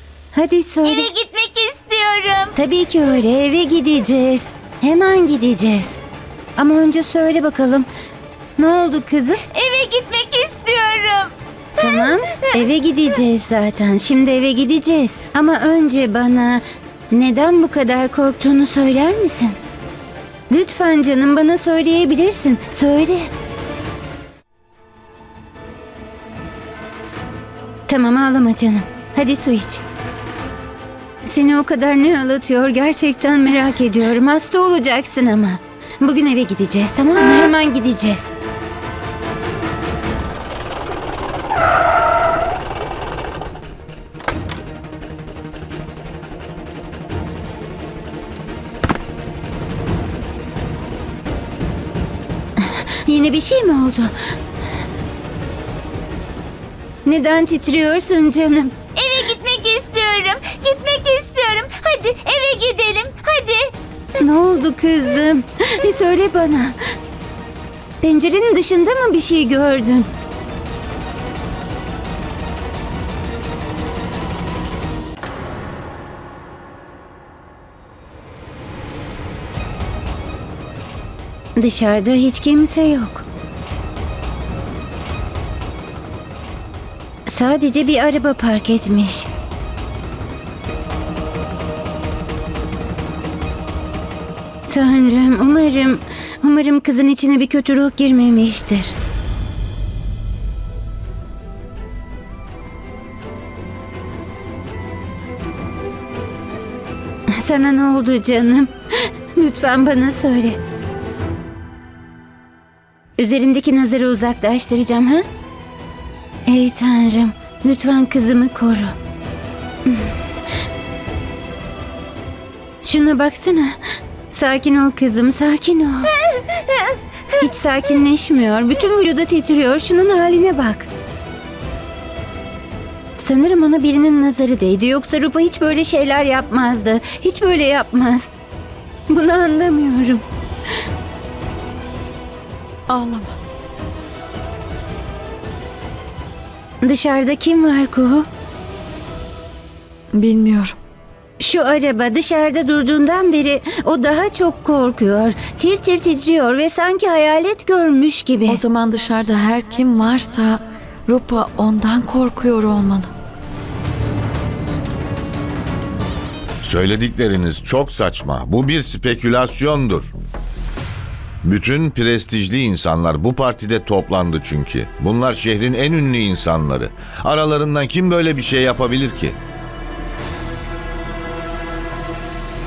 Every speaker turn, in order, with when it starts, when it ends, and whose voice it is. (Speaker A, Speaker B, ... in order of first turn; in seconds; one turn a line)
Speaker A: 0.3-1.1
Speaker B: 0.8-2.5
Speaker A: 2.5-6.0
Speaker A: 6.6-7.9
Speaker A: 8.6-9.4
Speaker B: 9.5-12.6
Speaker A: 11.8-19.6
Speaker A: 20.5-23.3
Speaker A: 27.9-29.8
Speaker A: 31.2-38.3
Speaker A: 52.6-54.1
Speaker A: 57.0-58.8
Speaker B: 59.0-63.7
Speaker A: 64.2-66.8
Speaker A: 68.0-70.1
Speaker A: 81.6-83.2
Speaker A: 87.3-89.3
Speaker A: 94.7-98.9
Speaker A: 107.3-108.7
Speaker A: 109.3-110.6
Speaker A: 113.2-115.2
Speaker A: 116.5-119.0
Speaker A: 122.8-126.1
Speaker A: 127.4-130.9
Speaker A: 133.2-138.3
Speaker A: 139.1-140.2
Speaker C: 142.9-143.3
Speaker A: 146.8-148.3
Speaker C: 150.1-150.7
Speaker A: 151.4-158.6
Speaker C: 158.5-163.1
Speaker D: 166.6-170.1
Speaker D: 171.4-179.4